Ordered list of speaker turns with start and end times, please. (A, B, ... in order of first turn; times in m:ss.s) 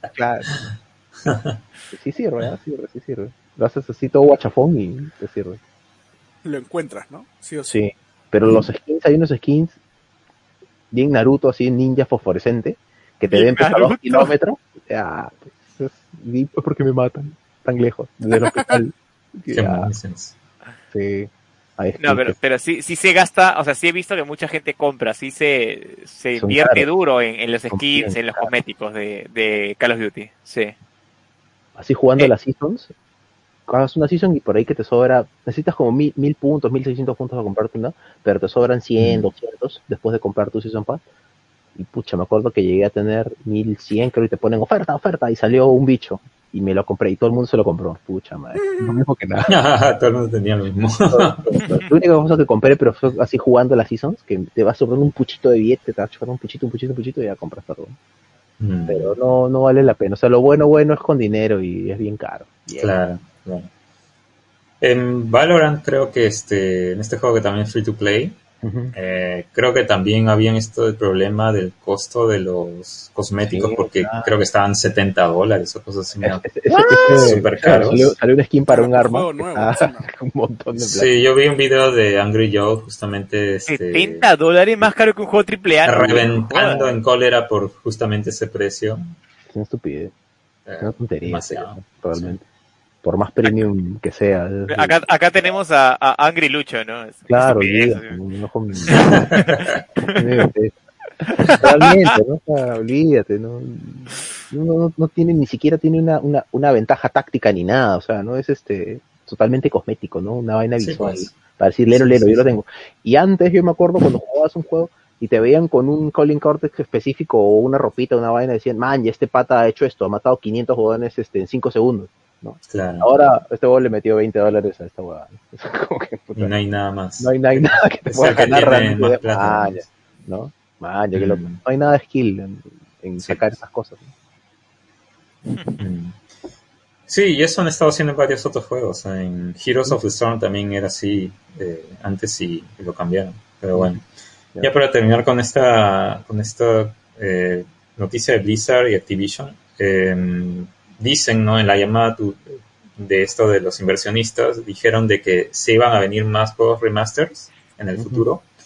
0:00.1-0:00.5 A
0:01.2-0:01.6 B
0:01.9-0:05.6 A
0:06.4-0:07.8 C
0:07.7-0:09.8 A
0:10.9-0:19.9 A
0:13.3-0:14.3 D
0:19.5-0:20.4 B
0:20.9-0:22.4 A
0:22.0-0:30.8 D
0:26.4-0:26.9 A
0:27.7-0:28.5 A
0:31.8-0:32.9 A
0:33.7-0:41.0 A
0:39.0-0:39.3 B
0:41.8-0:49.6 A
0:48.6-0:48.9 C
0:49.5-0:51.5 B
0:51.1-0:58.0 A
0:58.6-0:59.1 B
0:58.9-1:02.9 A
1:02.8-1:03.7 B
1:04.8-1:08.4 B
1:08.6-1:08.9 A
1:08.9-1:16.5 B
1:13.4-1:14.3 A
1:16.2-1:21.1 A
1:16.7-1:17.4 D
1:17.1-1:18.2 B
1:18.7-1:20.1 C
1:20.8-1:24.3 B
1:23.7-1:26.9 D
1:25.9-1:29.2 B
1:29.5-1:30.1 A
1:30.7-1:32.4 B
1:30.8-1:32.4 A
1:33.0-1:35.0 A
1:34.7-1:38.2 D
1:37.3-1:39.3 A
1:38.9-1:39.8 B
1:39.4-1:40.2 D
1:40.2-1:40.8 A
1:41.3-1:41.9 D
1:41.3-2:06.5 A
1:50.8-1:51.3 B
1:51.9-1:52.6 B
2:02.7-2:03.1 B
2:06.4-2:09.9 B
2:07.2-2:14.1 A
2:11.1-2:11.6 B
2:13.2-2:13.5 B
2:15.5-2:15.8 D
2:15.8-2:16.2 B
2:17.1-2:24.0 B
2:24.6-2:38.4 B
2:38.0-2:38.3 A